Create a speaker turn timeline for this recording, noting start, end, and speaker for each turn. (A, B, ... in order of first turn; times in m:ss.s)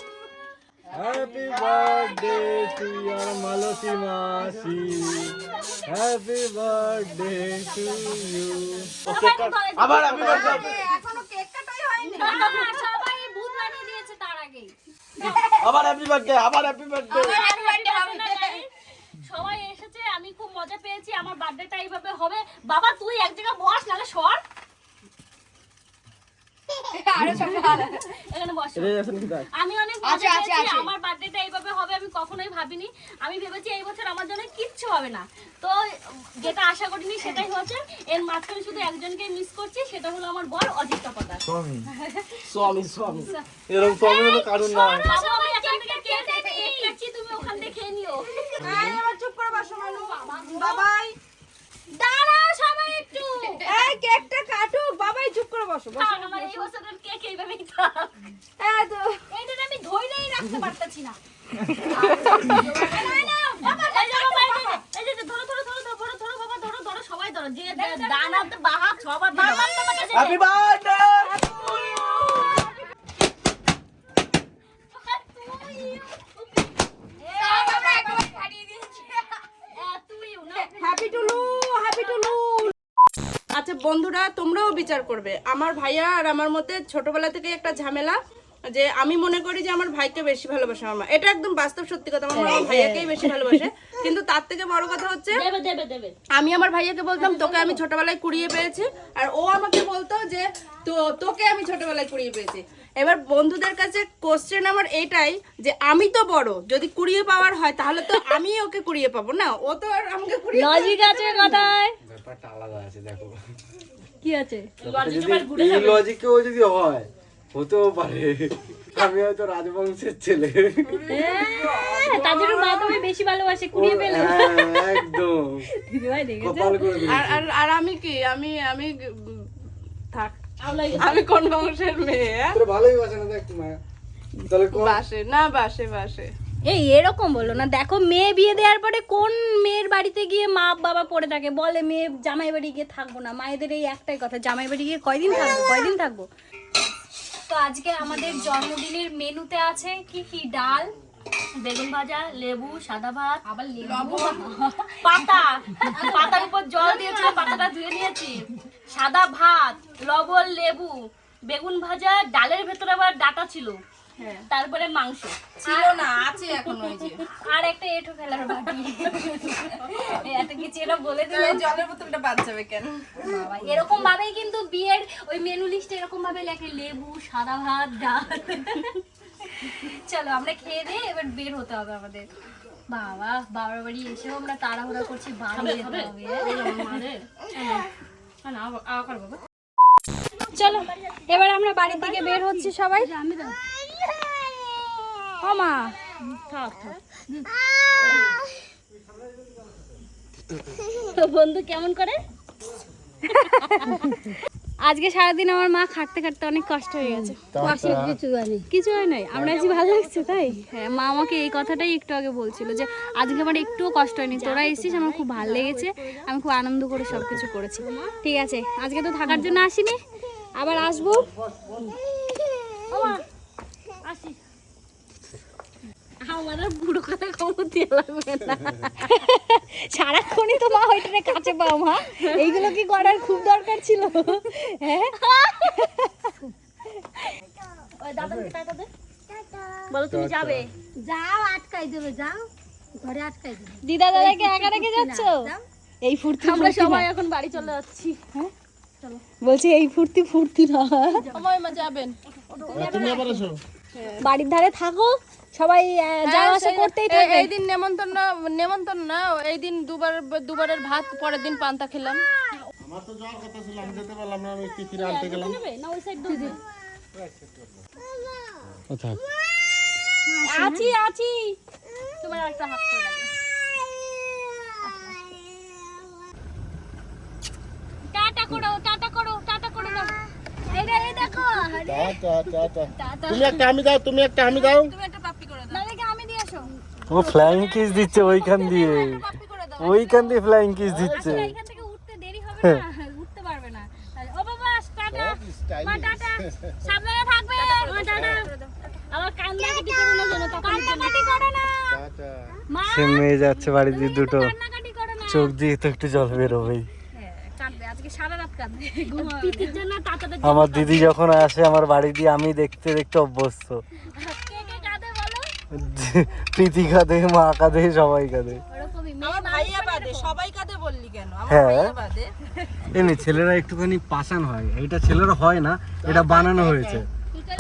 0:00.9-0:08.9 A
0:09.1-0:10.7 B
0:09.1-0:10.8 C
0:10.1-0:12.3 D
0:12.1-0:15.6 B
0:12.2-0:12.6 E
0:15.6-0:17.4 C
0:17.1-0:18.4 B
0:17.2-0:18.7 E
0:19.2-0:24.4 E
0:27.1-0:28.0 B
0:27.1-0:27.8 D
0:28.1-0:29.0 E
0:28.8-0:29.5 C
0:29.5-0:41.4 E
0:30.0-0:30.9 D
0:41.5-0:41.8 F
0:42.0-0:42.4 B
0:42.5-0:43.3 C
0:43.3-0:46.9 B
0:43.7-0:45.1 A
0:45.0-0:48.4 E
0:48.6-0:51.1 D
0:50.2-0:50.8 B
0:51.9-0:53.7 B
0:53.6-0:56.6 D
0:55.9-0:58.1 E
0:58.6-0:59.2 D
0:59.3-1:01.2 B
1:01.9-1:03.0 D
1:01.9-1:04.8 B
1:02.2-1:02.9 G
1:03.6-1:10.4 E
1:07.7-1:08.5 B
1:09.3-1:10.4 B
1:10.1-1:12.4 C
1:11.5-1:12.2 B
1:14.9-1:16.7 E
1:17.4-1:18.0 B
1:17.4-1:18.1 E
1:17.4-1:19.2 D
1:19.8-1:22.3 E
1:20.7-1:22.7 D
1:23.6-1:28.2 D
1:28.7-1:35.4 D
1:32.3-1:33.3 E
1:35.3-1:36.1 E
1:36.3-1:51.6 D
1:37.2-1:37.8 E
1:50.5-1:52.0 B
1:52.0-1:53.4 A
1:54.2-1:54.7 B
1:54.8-2:01.0 A
1:54.8-1:56.0 E
2:00.9-2:03.0 D
2:01.1-2:05.2 B
2:03.7-2:05.7 A
2:05.8-2:06.9 B
2:06.4-2:07.4 A
2:07.0-2:09.4 D
2:10.1-2:10.4 D
2:10.6-2:11.3 E
2:11.0-2:12.6 D
2:12.5-2:13.8 A
2:14.4-2:15.0 A
2:14.7-2:16.3 D
2:16.7-2:26.3 B
2:25.3-2:25.7 D
2:27.5-2:30.9 B
2:31.6-2:33.4 E
2:33.4-2:37.6 B
2:33.8-2:34.4 D
2:35.0-2:40.9 E
2:41.5-2:43.8 E
2:44.2-2:44.4 D
2:44.5-2:45.4 E
2:45.6-2:47.2 D
2:45.6-2:46.2 B
2:47.4-2:51.8 B
2:51.3-2:53.0 D
2:53.2-2:59.0 B
2:59.5-3:02.3 B
3:02.9-3:06.5 B
3:05.5-3:07.9 E
3:06.6-3:07.0 D
3:08.4-3:09.4 E
3:10.4-3:12.7 E
3:10.5-3:13.1 B
3:13.1-3:13.5 G
3:15.4-3:15.9 B
3:16.2-3:17.0 E
3:21.0-3:22.2 E
3:23.2-3:24.1 B
3:24.8-3:27.9 B
3:27.5-3:28.2 F
3:27.5-3:28.6 G
3:28.7-3:40.0 B
3:29.4-3:30.6 E
3:34.3-3:36.2 E
3:37.8-3:38.1 E
3:39.3-3:39.6 E
3:40.6-3:41.3 B
3:40.9-3:41.9 F
3:42.9-3:43.2 B
3:44.0-3:44.4 E
3:46.3-3:48.0 E
3:46.5-3:46.8 B
3:47.9-3:56.3 B
3:52.2-3:52.6 E
3:55.2-3:55.7 E
3:58.0-3:58.9 E
3:59.3-3:59.9 G
3:59.9-4:00.7 E
4:00.1-4:00.6 F
4:01.0-4:02.5 G
4:03.0-4:05.6 G
4:03.8-4:05.5 B
4:06.0-4:07.0 B
4:06.4-4:08.2 E
4:09.4-4:11.2 B
4:11.3-4:12.2 D
4:12.5-4:13.4 E
4:12.7-4:13.2 D
4:12.7-4:13.6 F
4:14.0-4:14.2 D
4:14.2-4:17.5 B
4:16.3-4:22.2 D
4:22.8-4:25.6 F
4:25.0-4:26.6 E
4:26.3-4:26.6 G
4:27.2-4:27.7 A
4:28.9-4:29.2 A
4:30.3-4:31.4 B
4:30.6-4:30.9 E
4:32.2-4:33.2 B
4:38.1-4:42.2 B
4:41.8-4:44.9 F
4:42.9-4:43.6 B
4:44.5-4:45.8 D
4:45.7-4:46.7 B
4:47.1-4:49.2 A
4:47.1-4:50.4 D
4:49.8-4:51.5 A
4:50.8-4:51.5 F
4:50.9-4:58.4 B
4:55.1-4:56.9 F
4:57.6-4:58.7 D
4:57.8-4:58.5 E
4:58.1-4:58.4 F
4:59.1-5:01.2 E
5:00.6-5:01.8 B
5:01.9-5:02.6 F
5:02.7-5:05.5 B
5:02.8-5:04.5 A
5:05.3-5:06.9 A
5:07.1-5:09.7 B
5:09.1-5:11.2 E
5:10.4-5:13.8 A
5:14.2-5:15.4 B
5:15.7-5:18.6 A
5:18.7-5:20.3 B
5:19.2-5:22.3 D
5:21.5-5:21.9 A
5:22.9-5:27.0 A
5:26.0-5:27.0 F